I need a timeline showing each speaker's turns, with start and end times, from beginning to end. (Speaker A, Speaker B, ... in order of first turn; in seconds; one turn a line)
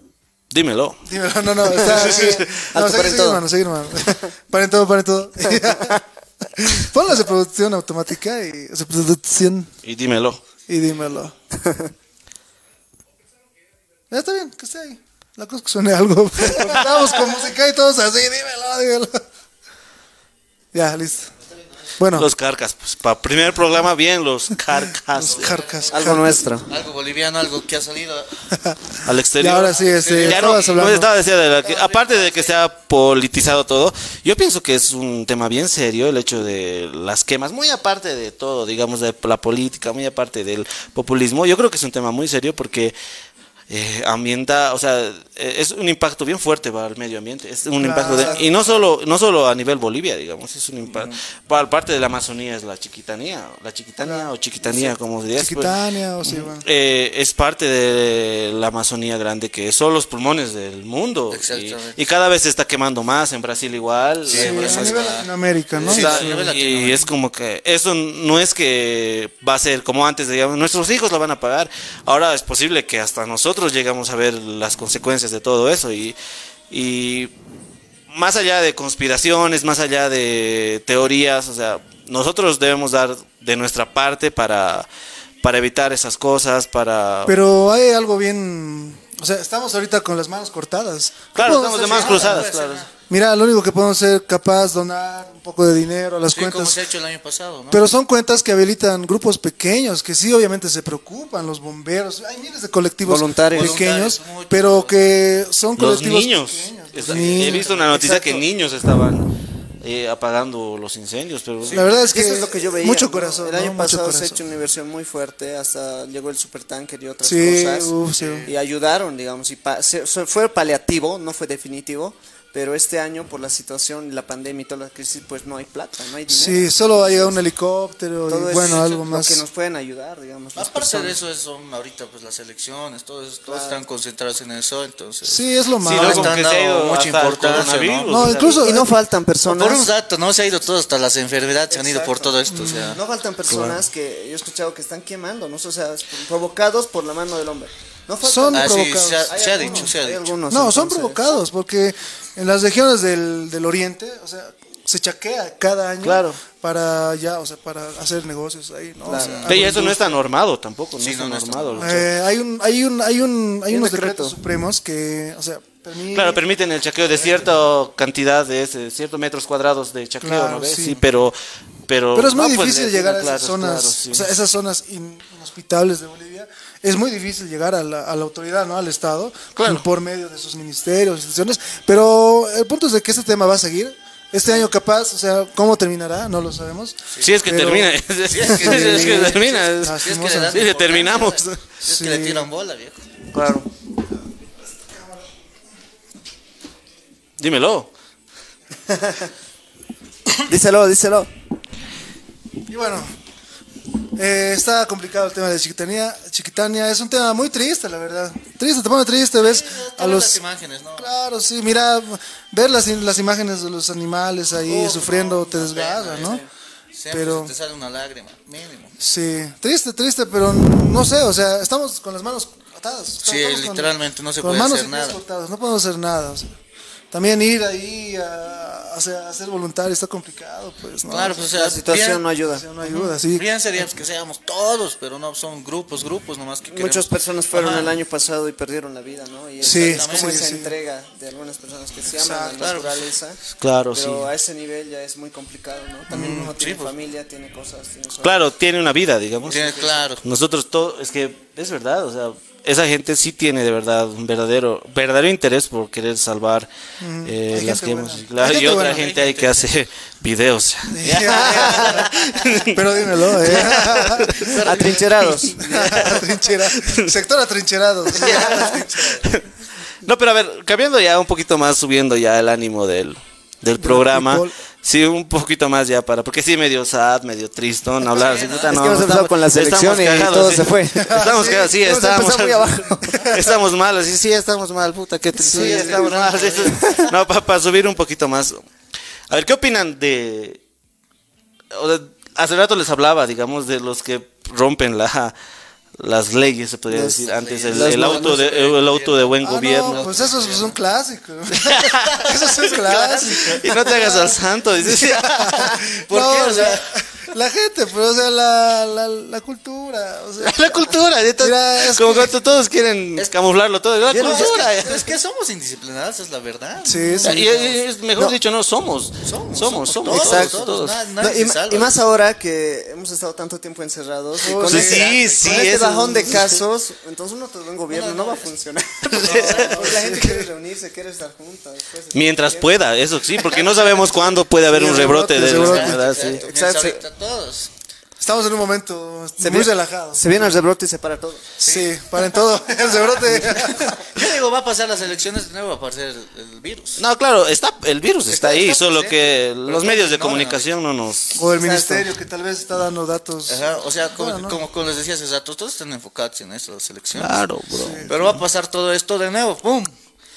Speaker A: 0.5-1.0
Speaker B: 1.0-9.7
Speaker C: 1.7-3.4
Speaker A: 1.9-2.3
Speaker C: 5.6-6.0
Speaker A: 9.8-10.4
Speaker B: 10.7-11.3
Speaker C: 11.6-11.9
Speaker B: 14.1-19.2
Speaker A: 16.5-17.0
Speaker B: 20.7-21.3
Speaker B: 22.0-22.3
Speaker A: 22.1-25.6
Speaker B: 25.1-26.4
Speaker D: 25.2-28.4
Speaker C: 25.9-26.7
Speaker B: 28.5-31.1
Speaker A: 29.0-43.0
Speaker D: 29.7-30.8
Speaker D: 31.6-32.6
Speaker A: 43.7-65.1
Speaker B: 47.8-48.5
Speaker D: 48.0-48.8
Speaker D: 50.9-51.1
Speaker B: 54.0-54.3
Speaker B: 55.4-56.6
Speaker D: 61.3-62.0
Speaker D: 64.2-65.3
Speaker B: 64.3-66.4
Speaker D: 65.8-67.1
Speaker A: 65.8-76.2
Speaker A: 76.7-77.3
Speaker A: 78.1-84.9
Speaker A: 85.4-87.3
Speaker B: 87.3-92.5
Speaker A: 91.3-92.8
Speaker D: 91.5-92.9
Speaker B: 93.1-96.8
Speaker D: 96.3-97.8
Speaker B: 97.7-107.8
Speaker C: 103.0-103.8
Speaker D: 103.5-105.1
Speaker A: 105.8-111.8
Speaker D: 107.0-107.9
Speaker C: 107.9-108.4
Speaker B: 111.7-114.4
Speaker C: 111.8-117.9
Speaker B: 117.2-118.5
Speaker D: 118.2-118.5
Speaker C: 118.4-127.4
Speaker B: 126.3-129.4
Speaker C: 128.3-131.2
Speaker D: 128.6-129.0
Speaker D: 130.6-138.3
Speaker C: 133.5-133.8
Speaker B: 135.2-136.4
Speaker A: 135.8-138.6
Speaker B: 138.1-138.9
Speaker C: 138.4-139.9
Speaker D: 139.4-143.0
Speaker C: 141.7-151.3
Speaker B: 142.5-143.0
Speaker A: 143.5-143.8
Speaker B: 148.2-149.9
Speaker D: 148.5-150.3
Speaker B: 150.5-160.2
Speaker A: 156.0-156.4
Speaker C: 159.0-159.5
Speaker D: 159.1-159.6
Speaker A: 159.5-162.1
Speaker D: 161.0-161.9
Speaker B: 161.7-166.4
Speaker C: 163.7-164.4
Speaker A: 166.1-174.3
Speaker D: 167.2-167.4
Speaker B: 170.2-171.0
Speaker B: 172.1-190.6
Speaker A: 179.6-179.8
Speaker D: 187.1-187.4
Speaker A: 187.2-191.6
Speaker D: 188.2-193.0
Speaker B: 191.8-192.5
Speaker A: 193.3-193.7
Speaker B: 194.8-195.2
Speaker A: 197.4-197.9
Speaker C: 198.9-199.2
Speaker C: 200.4-201.3
Speaker B: 202.7-203.1
Speaker B: 204.2-210.4
Speaker D: 209.4-211.1
Speaker B: 211.0-216.4
Speaker D: 214.7-218.9
Speaker B: 217.1-217.5
Speaker B: 219.0-226.5
Speaker D: 223.2-225.2
Speaker B: 227.1-231.5
Speaker D: 231.1-232.2
Speaker C: 231.5-232.7
Speaker B: 232.5-233.4
Speaker D: 232.8-237.9
Speaker C: 236.7-243.4
Speaker B: 239.6-240.7
Speaker D: 239.7-240.4
Speaker B: 242.1-242.6
Speaker D: 242.6-243.0
Speaker A: 243.6-244.3
Speaker C: 243.9-248.4
Speaker B: 246.1-246.5
Speaker D: 246.1-246.9
Speaker A: 248.2-256.7
Speaker D: 249.4-250.2
Speaker C: 249.5-250.0
Speaker B: 257.0-259.0
Speaker A: 257.2-264.9
Speaker D: 258.4-259.8
Speaker B: 260.9-262.1
Speaker C: 261.2-262.0
Speaker D: 261.5-262.6
Speaker B: 262.6-269.2
Speaker D: 264.3-265.1
Speaker C: 264.4-266.2
Speaker A: 265.7-266.2
Speaker A: 266.7-267.0
Speaker D: 268.1-269.3
Speaker A: 268.2-269.4
Speaker A: 270.0-288.6
Speaker B: 273.8-274.6
Speaker D: 278.0-279.0
Speaker C: 278.7-283.3
Speaker B: 280.9-283.6
Speaker C: 285.4-286.0
Speaker D: 285.4-287.1
Speaker C: 286.6-287.1
Speaker A: 289.3-290.6
Speaker A: 291.7-295.3
Speaker A: 296.0-300.1
Speaker C: 296.9-298.4
Speaker D: 297.2-300.7
Speaker B: 299.4-312.3
Speaker A: 301.5-302.2
Speaker D: 302.1-304.3
Speaker A: 303.4-305.8
Speaker D: 305.9-306.9
Speaker A: 310.4-315.0
Speaker D: 314.0-317.7
Speaker C: 314.1-314.8
Speaker B: 316.8-317.7
Speaker A: 317.2-321.0
Speaker D: 319.2-322.0
Speaker C: 320.1-320.6
Speaker C: 321.2-332.8
Speaker B: 324.4-325.1
Speaker D: 324.6-325.8
Speaker A: 324.7-326.6
Speaker D: 327.9-328.5
Speaker A: 329.1-329.7
Speaker D: 329.2-330.0
Speaker B: 329.4-330.5
Speaker A: 332.1-336.4
Speaker D: 333.3-334.4
Speaker B: 334.6-336.1
Speaker D: 335.5-337.7
Speaker C: 336.2-337.0
Speaker B: 338.2-340.5
Speaker C: 339.4-341.4
Speaker B: 341.6-344.0
Speaker D: 341.6-347.0
Speaker A: 347.0-351.4
Speaker D: 348.3-350.7
Speaker B: 351.3-353.6
Speaker C: 351.6-352.1
Speaker D: 353.5-357.4
Speaker B: 354.1-354.6
Speaker A: 357.2-358.4
Speaker B: 357.7-358.4
Speaker D: 358.1-359.9